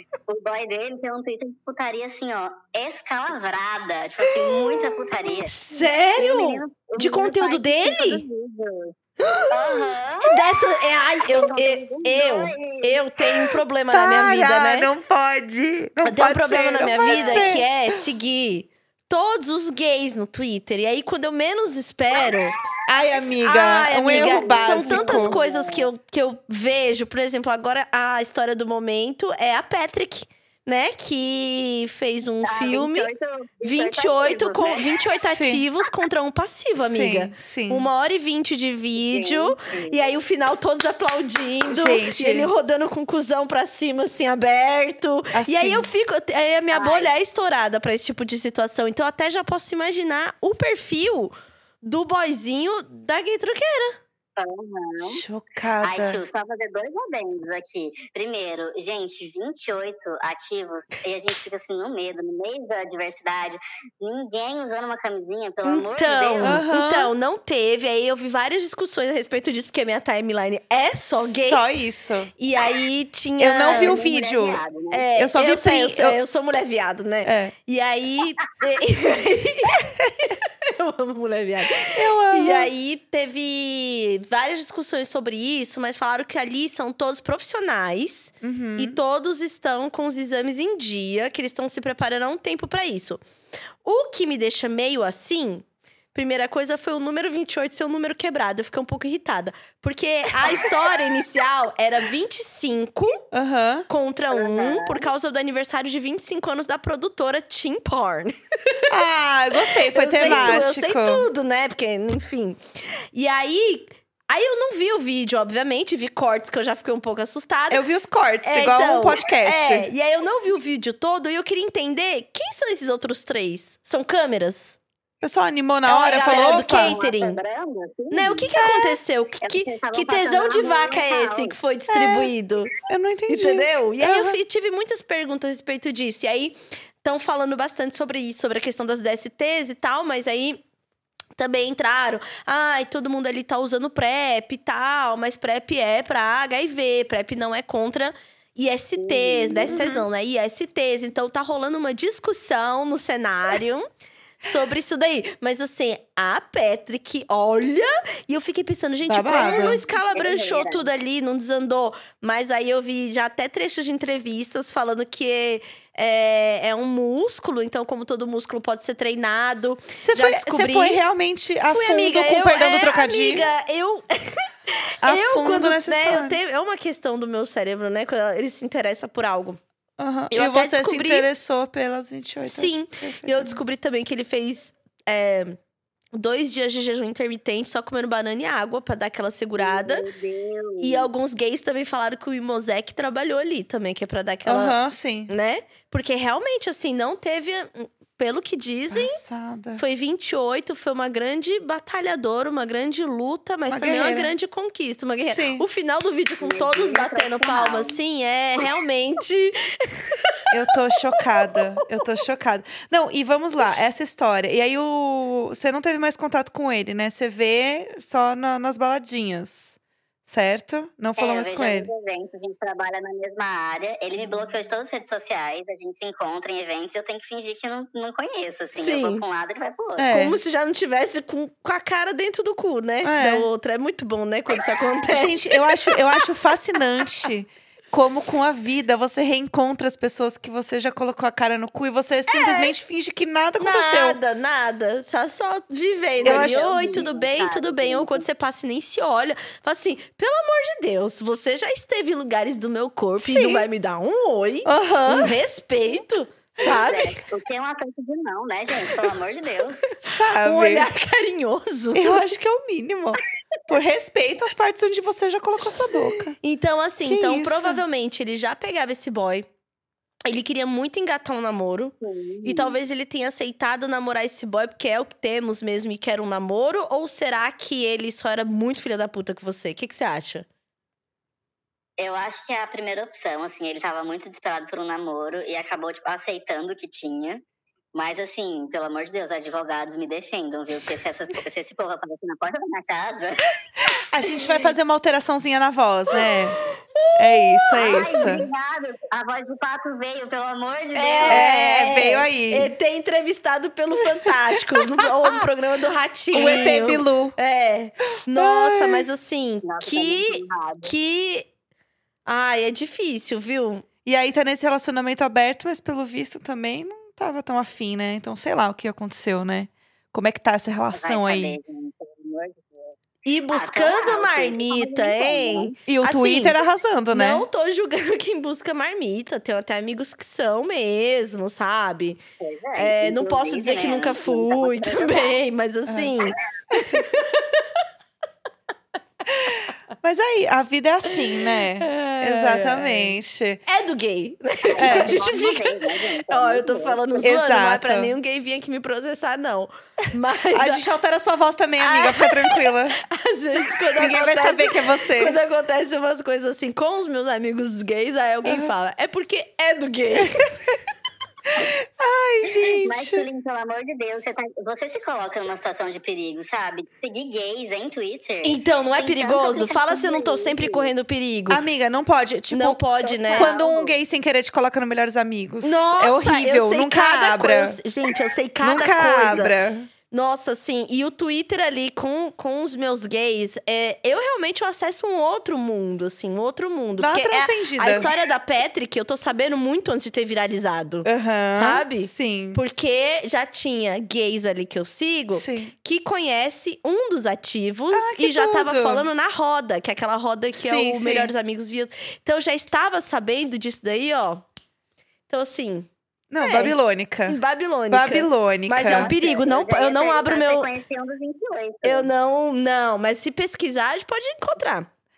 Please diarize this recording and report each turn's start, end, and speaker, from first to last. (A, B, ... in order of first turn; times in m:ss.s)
0:00.3-0:08.9 A
0:04.4-0:05.3 B
0:05.5-0:08.2 C
0:09.2-0:10.0 B
0:09.5-0:10.4 A
0:10.2-0:14.9 C
0:11.3-0:13.0 A
0:13.9-0:17.7 B
0:16.0-0:22.6 C
0:17.0-0:17.6 A
0:22.2-0:23.2 A
0:22.9-0:25.3 B
0:23.4-0:33.1 C
0:24.1-0:25.9 A
0:32.4-0:35.2 A
0:33.6-0:54.0 C
0:35.3-0:35.6 B
0:36.8-0:37.9 B
0:39.0-0:40.1 A
0:41.7-0:42.5 B
0:45.3-0:45.9 B
0:46.7-0:47.1 A
0:54.4-0:55.2 A
0:55.0-0:56.2 B
0:55.8-1:06.6 A
1:05.6-1:11.6 C
1:06.4-1:07.1 B
1:11.2-1:12.3 B
1:12.4-1:14.0 C
1:13.4-1:14.6 B
1:13.7-1:15.1 A
1:14.9-1:33.2 C
1:15.2-1:16.2 B
1:17.2-1:17.5 B
1:21.8-1:22.7 B
1:28.4-1:29.0 B
1:33.8-1:43.3 C
1:40.4-1:40.7 B
1:43.3-1:43.9 B
1:43.9-1:48.8 C
1:44.3-1:45.1 A
1:48.9-1:51.3 B
1:49.9-1:52.6 C
1:50.2-1:50.6 A
1:53.1-1:57.8 C
1:57.7-1:59.9 B
1:58.4-2:04.8 C
2:05.2-2:07.0 B
2:05.9-2:07.4 C
2:06.0-2:08.5 A
2:08.1-2:12.7 C
2:08.6-2:09.0 B
2:09.4-2:11.6 A
2:11.9-2:12.3 B
2:12.9-2:14.4 B
2:13.3-2:20.6 C
2:21.4-2:33.9 C
2:29.0-2:29.8 A
2:29.7-2:30.0 B
2:34.4-2:51.0 C
2:39.1-2:39.8 B
2:39.6-2:40.9 A
2:50.0-2:53.5 B
2:51.7-2:59.6 C
2:55.0-2:56.4 B
3:00.0-3:03.6 B
3:00.3-3:01.3 C
3:02.4-3:05.6 C
3:06.1-3:10.1 C
3:09.6-3:11.1 A
3:10.8-3:14.8 C
3:14.4-3:15.3 B
3:15.3-3:19.2 C
3:18.9-3:19.8 B
3:19.8-3:30.2 C
3:23.7-3:24.3 B
3:25.2-3:25.7 B
3:26.4-3:28.0 A
3:30.5-3:41.9 B
3:41.2-3:50.1 A
3:48.8-3:49.2 C
3:50.0-3:50.4 B
3:50.1-3:56.0 C
3:53.0-3:53.5 B
3:55.1-4:04.2 B
4:02.3-4:02.7 C
4:03.6-4:17.3 C
4:06.2-4:08.3 A
4:06.2-4:06.7 B
4:13.2-4:13.7 B
4:14.6-4:15.4 B
4:16.6-4:19.9 A
4:20.0-4:20.9 B
4:20.4-4:22.3 C
4:21.9-4:26.4 B
4:26.4-4:29.5 C
4:27.0-4:27.8 B
4:30.3-4:40.5 C
4:32.0-4:32.8 A
4:42.0-4:47.4 A
4:47.9-4:53.5 A
4:54.0-4:56.6 B
4:57.0-4:58.5 C
4:57.2-4:58.5 B
4:57.8-5:01.5 A
5:01.0-5:11.5 C
5:01.3-5:02.7 B
5:04.2-5:05.4 B
5:06.3-5:07.4 B
5:08.4-5:09.1 B
5:09.6-5:10.9 A
5:12.3-5:13.8 C
5:14.1-5:21.6 B
5:20.9-5:25.8 A
5:23.2-5:26.6 C
5:25.9-5:27.5 B
5:27.1-5:32.2 C
5:32.4-5:35.4 A
5:32.8-5:37.7 C
5:35.9-5:36.2 B
5:39.3-5:43.6 B
5:41.8-5:43.2 C
5:43.7-5:50.8 C
5:44.7-5:47.0 A
5:44.8-5:45.2 B
5:47.2-5:48.1 B
5:50.5-5:53.0 B
5:51.8-6:00.5 C
5:54.0-5:55.4 B
5:58.4-5:58.7 B
6:01.6-6:03.3 B
6:02.4-6:10.9 A
6:08.4-6:11.6 C
6:11.5-6:17.8 B
6:12.5-6:13.6 C
6:13.0-6:14.0 A
6:15.6-6:19.6 C
6:18.6-6:19.9 B
6:20.1-6:44.4 C
6:27.0-6:28.1 B
6:31.0-6:32.6 B
6:35.3-6:35.7 B
6:37.9-6:39.1 B
6:40.5-6:41.3 B
6:45.3-6:46.8 C
6:46.3-6:47.4 B
6:47.3-6:50.7 C
6:47.9-6:49.1 B
6:48.8-6:52.1 A
6:51.8-6:54.9 C